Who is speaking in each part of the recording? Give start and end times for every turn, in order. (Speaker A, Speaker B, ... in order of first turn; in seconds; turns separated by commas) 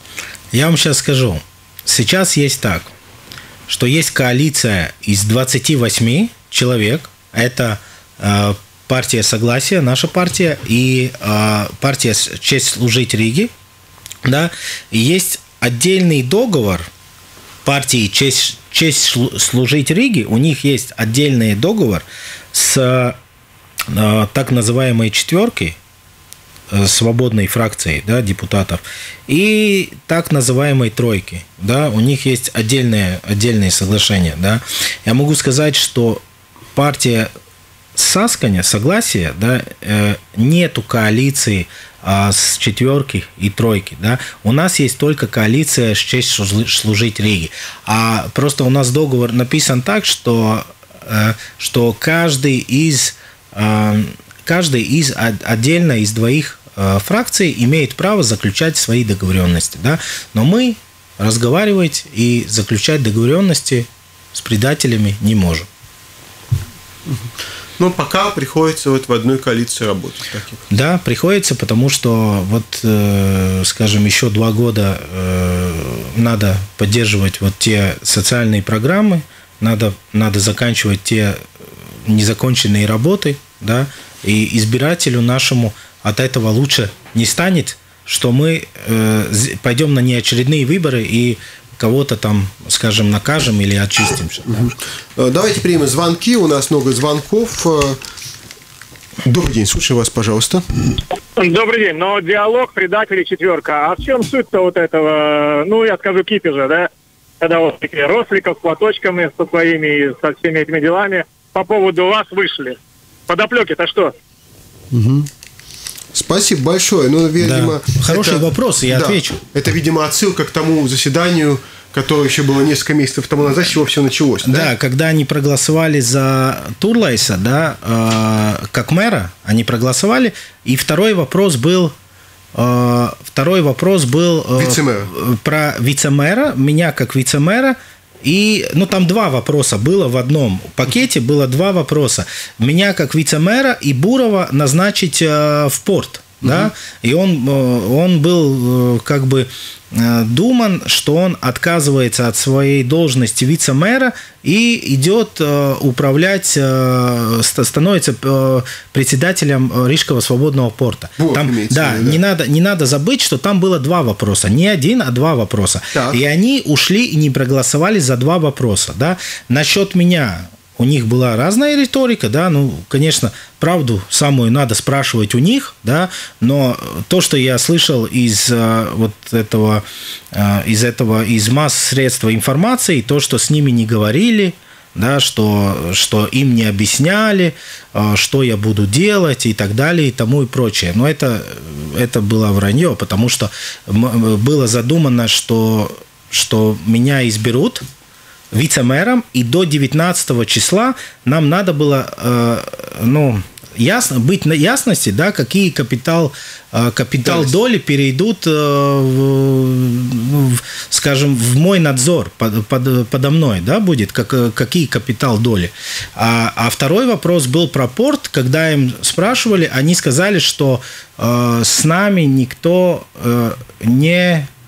Speaker A: 0.5-2.9, Speaker A: 3.7-13.5, Speaker A: 14.2-16.9, Speaker A: 17.6-23.2, Speaker A: 23.9-25.8, Speaker A: 26.7-36.2, Speaker A: 36.8-37.3, Speaker A: 38.0-65.7, Speaker B: 67.1-70.6, Speaker A: 70.7-81.5, Speaker A: 82.1-94.5, Speaker B: 94.5-98.0, Speaker B: 99.2-100.7, Speaker C: 101.3-106.9, Speaker C: 107.4-114.1, Speaker B: 114.9-115.3, Speaker B: 116.1-124.7, Speaker A: 117.4-119.4, Speaker A: 124.4-131.9, Speaker A: 132.6-197.8, Speaker B: 134.6-135.1, Speaker B: 146.4-146.7, Speaker B: 161.2-162.2, Speaker B: 165.9-166.2, Speaker A: 198.5-224.5, Speaker B: 207.2-207.5